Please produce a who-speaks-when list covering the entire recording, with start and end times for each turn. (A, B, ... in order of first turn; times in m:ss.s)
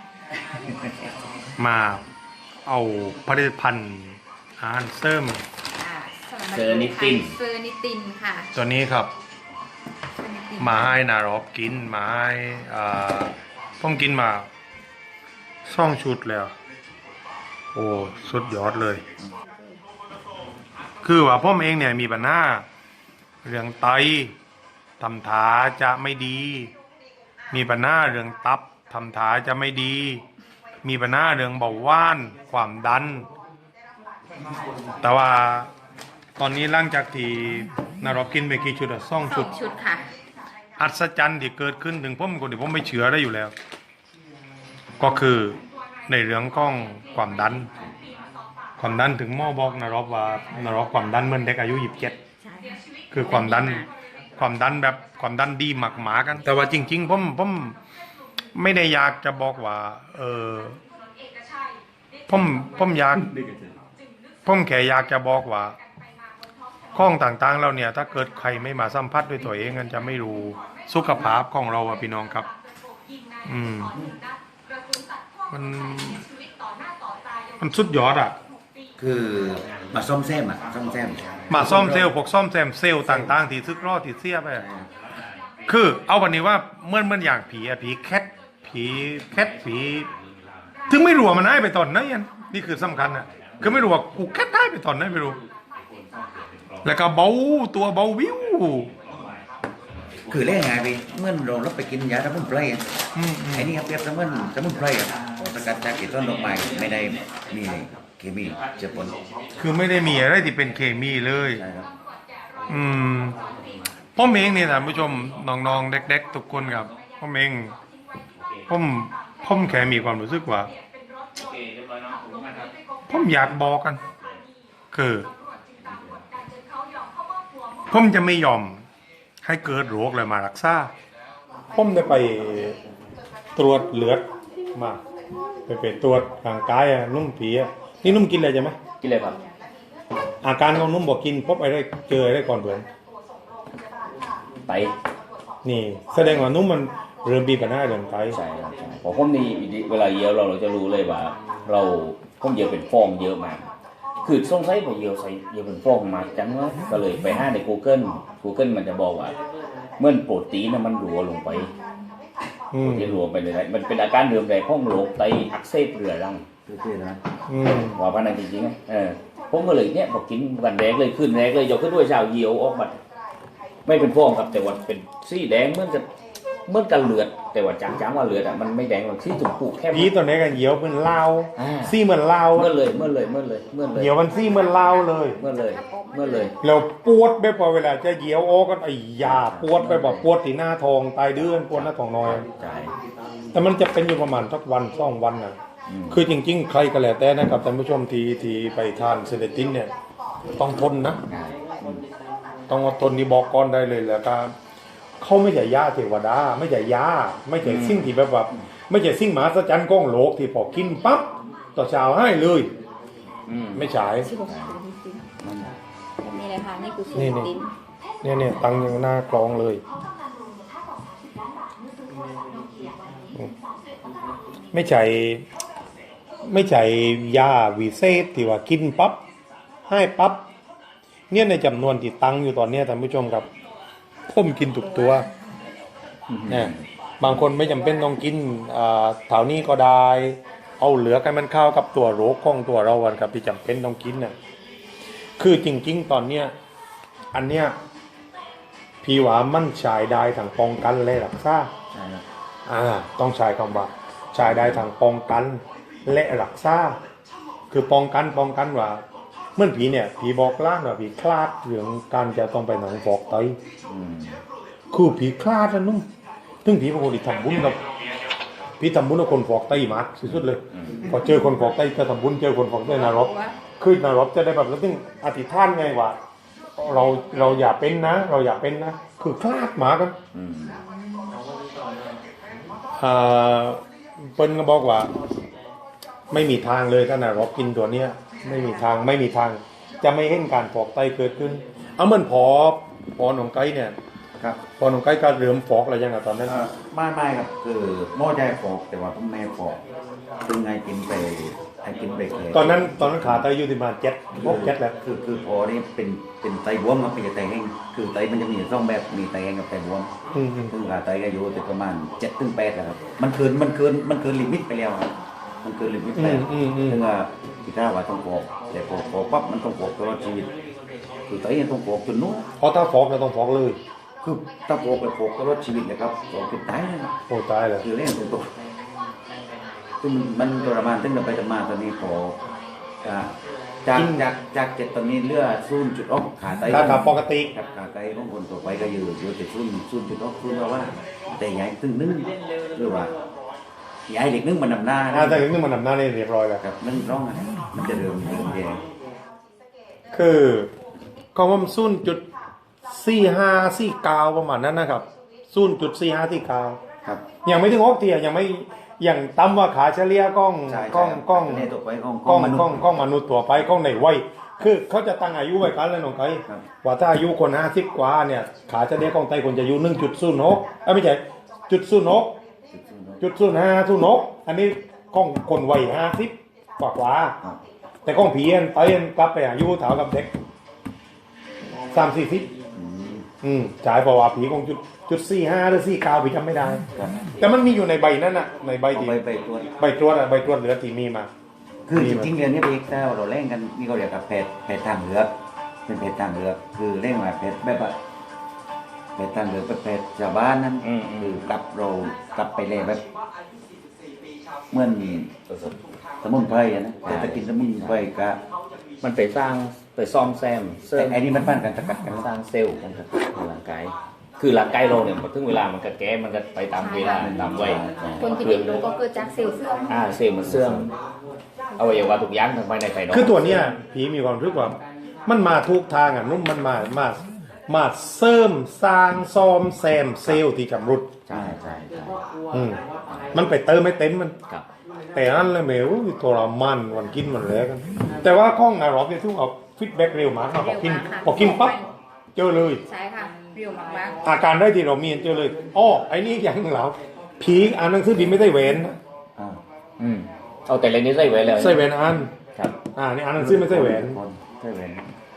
0:01.6-0:02.0 A
0:02.7-0:05.4 A
0:05.8-0:08.5 B
0:06.5-0:07.4 C
0:08.5-0:09.1 A
0:10.2-0:10.9 B
0:10.6-0:14.5 A
0:15.7-0:16.5 A
0:17.7-0:19.0 A
0:21.0-0:22.6 A
0:23.4-0:24.3 A
0:25.0-0:26.7 A
0:27.5-0:30.2 A
0:30.8-0:33.3 A
0:35.0-0:35.7 A
0:36.4-0:39.5 A
0:39.2-0:40.0 B
0:40.8-0:43.5 A
0:45.0-0:47.7 A
0:48.8-0:52.2 A
0:52.5-0:53.9 B
0:53.1-0:53.9 A
0:54.4-0:57.8 A
0:58.6-1:00.8 A
1:02.3-1:03.2 A
1:04.4-1:05.8 A
1:07.0-1:12.5 A
1:13.4-1:14.0 A
1:15.5-1:16.3 A
1:17.6-1:18.4 A
1:19.0-1:22.1 D
1:21.4-1:22.0 C
1:21.5-1:24.7 A
1:23.0-1:23.4 D
1:24.5-1:24.9 D
1:25.7-1:30.1 A
1:30.9-1:35.4 A
1:33.4-1:33.9 C
1:36.8-1:38.9 A
1:40.3-1:42.9 D
1:43.2-1:43.8 A
1:43.5-1:49.2 D
1:49.6-1:51.6 A
1:51.5-1:51.9 D
1:52.7-1:53.4 A
1:54.2-1:57.8 A
1:58.7-2:00.7 A
2:01.4-2:02.7 C
2:03.1-2:04.0 A
2:04.9-2:05.3 A
2:07.9-2:08.8 A
2:09.4-2:10.9 A
2:11.7-2:12.8 A
2:13.6-2:15.0 A
2:15.7-2:18.8 A
2:19.0-2:19.4 C
2:20.4-2:22.9 A
2:24.7-2:24.9 C
2:25.6-2:28.4 A
2:28.3-2:33.7 C
2:34.2-2:39.4 C
2:40.0-2:41.7 C
2:41.5-2:42.1 B
2:42.7-2:43.2 A
2:42.8-2:46.4 C
2:46.7-2:47.2 D
2:47.5-2:48.0 A
2:47.9-2:53.0 C
2:53.9-2:56.1 C
2:56.7-3:00.1 C
2:59.9-3:02.8 A
3:01.6-3:02.0 C
3:02.6-3:04.2 C
3:03.9-3:05.4 A
3:04.2-3:06.6 B
3:05.3-3:06.6 C
3:06.6-3:12.5 A
3:09.2-3:10.3 C
3:11.7-3:12.9 C
3:13.5-3:15.6 A
3:15.9-3:16.3 C
3:16.1-3:19.9 A
3:20.6-3:21.2 A
3:21.3-3:22.0 C
3:22.7-3:24.5 A
3:25.2-3:32.7 A
3:27.6-3:28.1 C
3:33.5-3:34.7 C
3:33.7-3:34.3 A
3:34.1-3:35.3 B
3:36.2-3:37.7 B
3:37.2-3:37.5 A
3:38.2-3:39.8 A
3:44.7-3:45.4 A
3:46.4-3:49.2 A
3:49.9-3:50.5 A
3:51.3-3:53.5 A
3:54.3-3:55.3 A
3:56.3-3:56.8 C
3:56.5-4:04.3 A
4:05.4-4:06.5 A
4:07.3-4:07.8 A
4:09.0-4:11.7 A
4:12.0-4:12.2 D
4:12.7-4:17.0 A
4:14.4-4:14.8 C
4:17.7-4:19.0 A
4:19.6-4:23.6 A
4:23.9-4:24.4 C
4:24.9-4:26.1 A
4:26.6-4:27.8 A
4:28.8-4:36.2 A
4:30.2-4:31.1 C
4:31.2-4:31.5 B
4:32.9-4:33.6 B
4:36.8-4:40.2 A
4:36.8-4:37.7 B
4:40.3-4:40.8 C
4:40.7-4:41.4 B
4:43.0-4:45.1 A
4:46.3-4:54.0 A
4:48.4-4:48.9 B
4:54.4-4:54.6 D
4:54.8-4:56.7 A
4:56.4-4:59.8 D
5:00.4-5:03.5 D
5:02.5-5:05.0 A
5:04.4-5:10.1 D
5:10.3-5:10.7 A
5:10.7-5:20.6 D
5:16.2-5:17.0 A
5:21.3-5:22.5 D
5:22.6-5:23.8 A
5:24.2-5:27.1 D
5:27.3-5:27.9 A
5:27.8-5:28.5 D
5:30.0-5:32.4 D
5:33.0-5:43.1 D
5:33.9-5:34.3 A
5:36.7-5:37.5 A
5:44.1-5:45.5 D
5:45.1-5:46.6 A
5:46.6-5:48.8 D
5:50.1-5:50.7 A
5:51.4-5:52.2 A
5:52.9-5:56.8 A
5:57.4-6:01.7 A
6:00.7-6:02.9 D
6:02.2-6:12.4 A
6:12.7-6:13.2 D
6:13.2-6:17.4 A
6:18.0-6:20.3 A
6:21.9-6:22.5 A
6:22.7-6:23.3 D
6:23.4-6:29.2 A
6:26.9-6:27.3 D
6:28.9-6:29.7 D
6:29.8-6:31.3 A
6:31.9-6:35.3 D
6:32.0-6:32.3 A
6:35.9-6:38.0 D
6:39.2-6:43.0 D
6:40.8-6:41.5 C
6:44.7-6:45.3 D
6:45.5-6:45.8 C
6:46.2-6:48.4 D
6:47.0-6:48.1 C
6:49.0-6:51.3 C
6:50.9-6:52.3 D
6:52.1-6:58.8 C
6:52.8-6:53.1 D
6:56.7-7:00.2 B
6:57.2-6:58.1 D
6:59.9-7:00.9 C
7:00.4-7:00.9 D
7:01.8-7:02.2 B
7:01.8-7:03.7 C
7:03.1-7:11.1 A
7:11.3-7:12.2 C
7:11.3-7:11.8 D
7:12.5-7:12.8 A
7:13.1-7:13.4 C
7:13.3-7:14.4 A
7:15.1-7:21.8 A
7:20.5-7:21.9 B
7:22.4-7:22.8 A
7:22.8-7:24.2 B
7:24.2-7:29.0 A
7:30.0-7:31.9 C
7:31.5-7:32.3 A
7:33.0-7:34.2 A
7:33.4-7:35.1 D